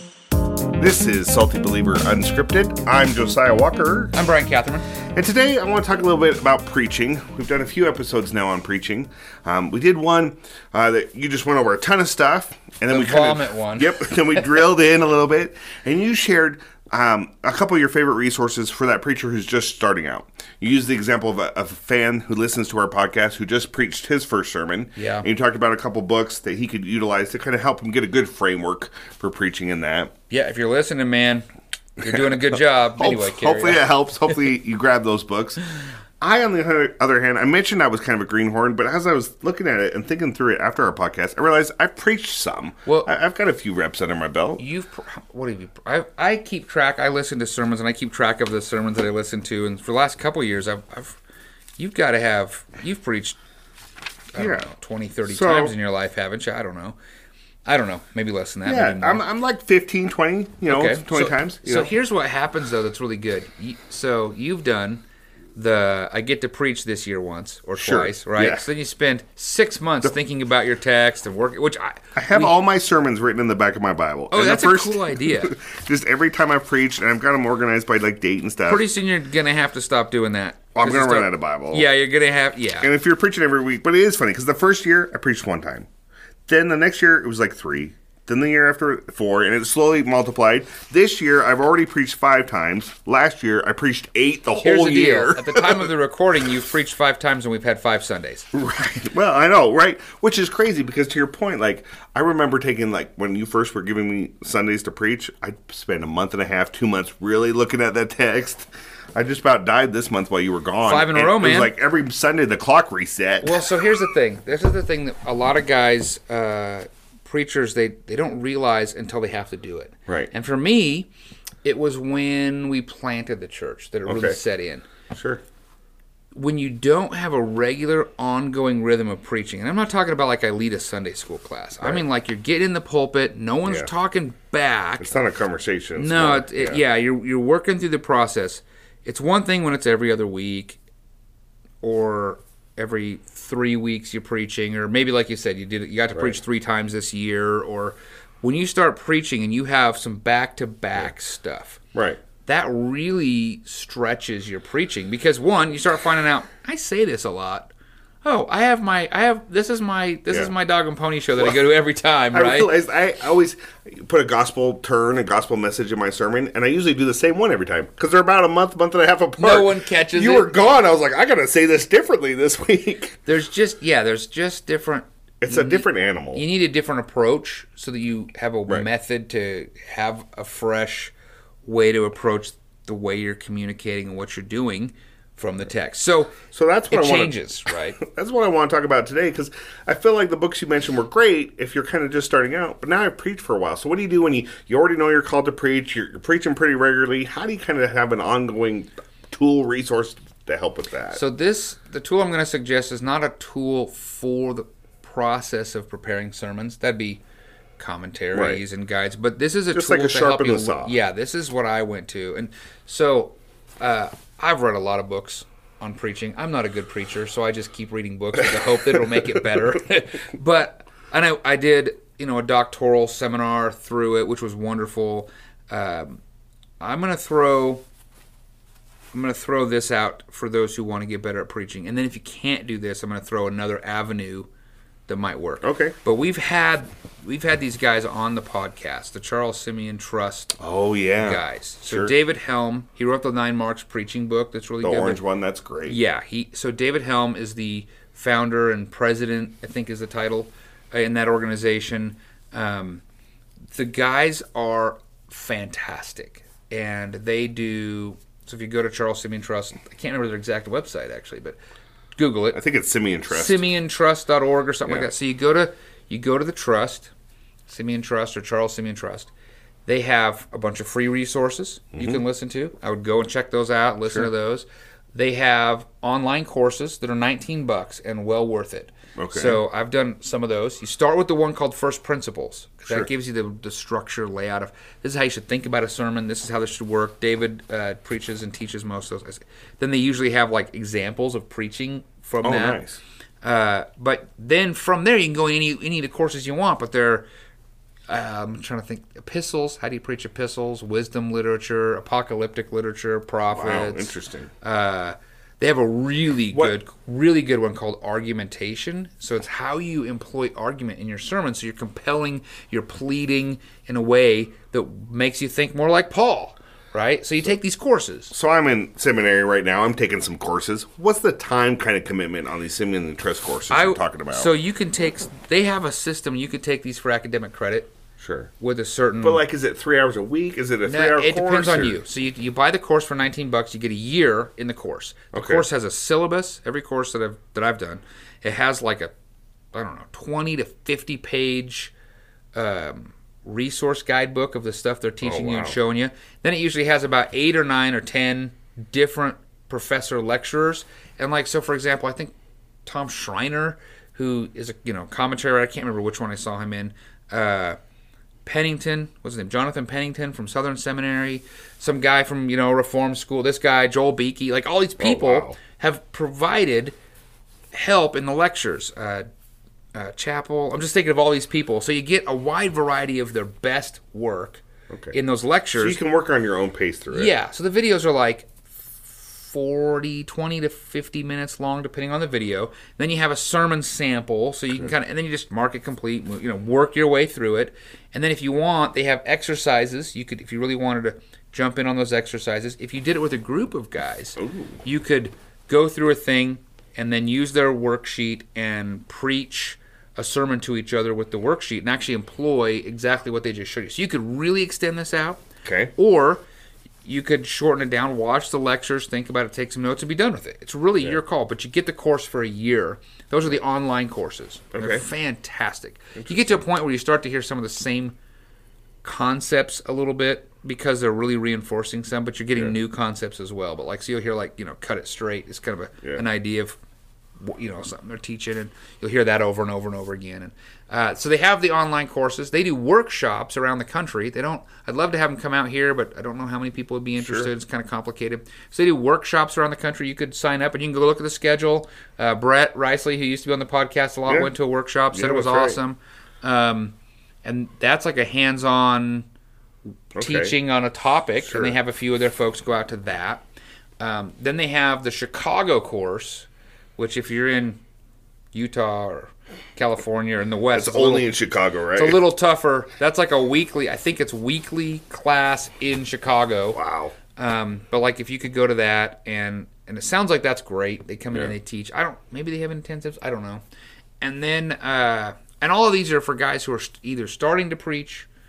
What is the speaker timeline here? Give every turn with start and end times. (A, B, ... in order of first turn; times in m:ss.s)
0:00.8-0:04.1 A
0:04.1-0:04.9 B
0:05.1-0:30.1 A
0:12.9-0:14.4 B
0:25.0-0:25.3 B
0:30.3-0:31.4 B
0:32.0-0:33.9 B
0:32.0-0:35.6 A
0:36.2-0:44.6 A
0:42.9-0:43.1 B
0:44.6-0:51.2 B
0:51.8-0:53.4 B
0:54.3-0:57.0 B
0:54.4-0:54.7 A
0:55.3-0:55.7 A
0:57.7-0:59.2 B
0:58.7-1:01.9 A
1:00.7-1:05.0 B
1:05.5-1:12.5 B
1:07.8-1:08.6 A
1:12.1-1:18.8 A
1:14.3-1:15.5 B
1:18.7-1:22.9 B
1:20.7-1:21.9 A
1:22.8-1:25.9 A
1:26.5-1:35.9 A
1:34.6-1:38.6 B
1:38.5-1:53.6 A
1:50.8-1:51.7 B
1:53.4-2:01.1 B
2:01.6-2:04.9 B
2:04.0-2:04.4 A
2:05.1-2:05.4 A
2:06.3-2:15.1 B
2:15.0-2:16.8 A
2:16.0-2:20.8 B
2:21.8-2:31.8 B
2:26.1-2:26.4 A
2:31.9-2:32.2 A
2:32.4-2:37.7 B
2:38.2-2:42.7 B
2:41.4-2:41.6 A
2:42.3-2:53.2 A
2:49.4-2:50.5 B
2:53.2-3:01.1 B
2:55.4-2:56.4 A
3:01.6-3:08.0 B
3:06.4-3:21.2 A
3:21.1-3:27.2 B
3:27.8-3:46.2 B
3:28.3-3:28.6 A
3:29.7-3:31.0 A
3:38.6-3:39.4 A
3:46.8-3:47.8 B
3:49.1-3:54.5 B
3:55.1-4:00.6 B
3:55.6-3:56.0 A
4:00.6-4:02.1 A
4:01.2-4:05.2 B
4:04.8-4:06.0 A
4:05.9-4:13.0 B
4:13.7-4:21.6 B
4:22.2-4:22.6 B
4:22.5-4:23.6 A
4:23.3-4:27.1 B
4:27.7-4:29.3 B
4:29.8-4:52.8 B
4:31.9-4:32.2 A
4:39.2-4:39.6 A
4:52.4-4:53.0 A
4:53.4-4:57.2 B
4:58.1-5:18.3 B
5:03.5-5:04.5 A
5:18.3-5:24.5 A
5:23.7-5:27.9 B
5:28.2-5:28.5 A
5:28.6-5:29.4 B
5:29.2-5:32.0 A
5:30.8-5:39.1 B
5:35.3-5:35.6 A
5:39.7-5:41.9 B
5:42.5-5:52.3 B
5:45.2-5:45.8 A
5:52.8-5:57.8 B
5:58.4-6:06.9 B
6:05.0-6:05.6 A
6:07.7-6:09.3 B
6:09.9-6:16.0 B
6:14.9-6:15.2 A
6:15.8-6:17.3 A
6:17.1-6:46.4 B
6:34.4-6:34.8 A
6:45.6-6:45.9 A
6:47.0-6:58.2 B
6:54.7-6:55.0 A
6:56.2-6:56.6 A
6:59.0-7:06.8 B
7:07.4-7:29.3 B
7:17.2-7:17.5 A
7:25.1-7:25.8 A
7:30.1-7:33.4 B
7:30.1-7:30.5 A
7:31.4-7:31.8 A
7:34.0-7:37.8 B
7:38.5-7:41.3 B
7:40.7-7:42.2 A
7:41.9-7:46.8 B
7:46.7-7:47.1 A
7:47.4-7:53.6 B
7:54.2-7:58.3 B